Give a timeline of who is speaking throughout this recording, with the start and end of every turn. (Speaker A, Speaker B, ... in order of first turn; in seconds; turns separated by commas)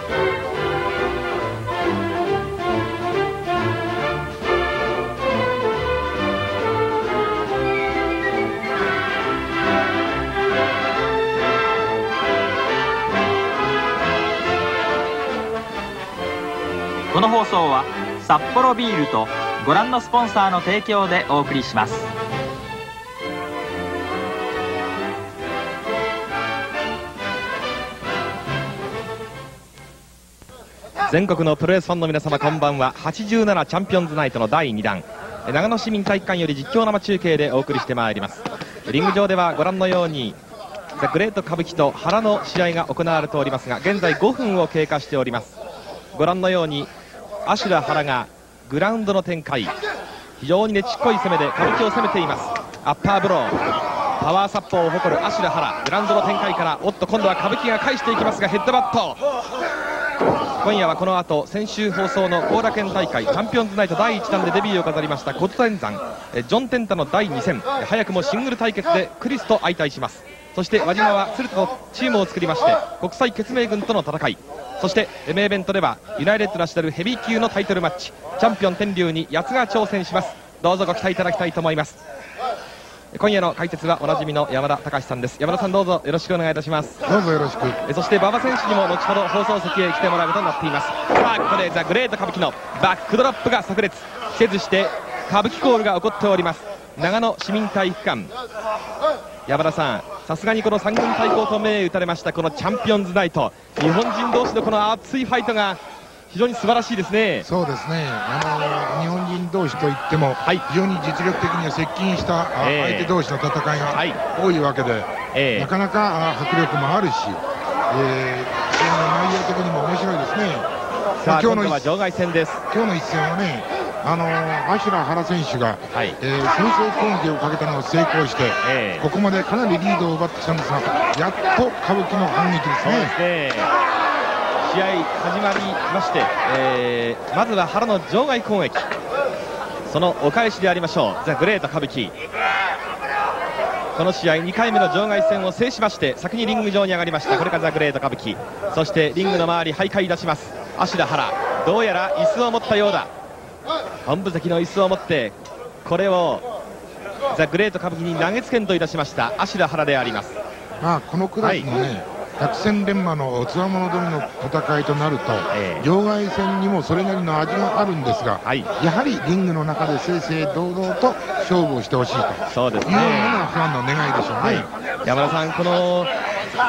Speaker A: 17.1-22.1, Speaker B: 31.1-40.4, Speaker B: 41.0-45.5, Speaker B: 46.1-46.9, Speaker B: 47.5-49.7, Speaker B: 50.4-53.5, Speaker B: 54.2-59.2, Speaker B: 60.6-82.0, Speaker B: 83.1-87.0, Speaker C: 87.0-87.8, Speaker B: 87.8-98.3, Speaker B: 99.5-107.5, Speaker C: 107.4-120.7, Speaker B: 112.6-113.1, Speaker B: 113.9-114.2, Speaker B: 115.3-115.7, Speaker B: 121.2-122.6, Speaker C: 121.2-121.9, Speaker C: 122.7-133.1, Speaker B: 125.9-126.2, Speaker B: 128.6-129.1, Speaker B: 132.8-133.7, Speaker B: 134.6-138.9, Speaker B: 139.9-142.1, Speaker B: 143.9-153.1, Speaker B: 154.0-156.4, Speaker B: 157.3-160.3, Speaker C: 160.8-174.7, Speaker B: 161.4-161.7, Speaker B: 165.5-165.9, Speaker B: 172.5-173.5, Speaker B: 174.4-176.1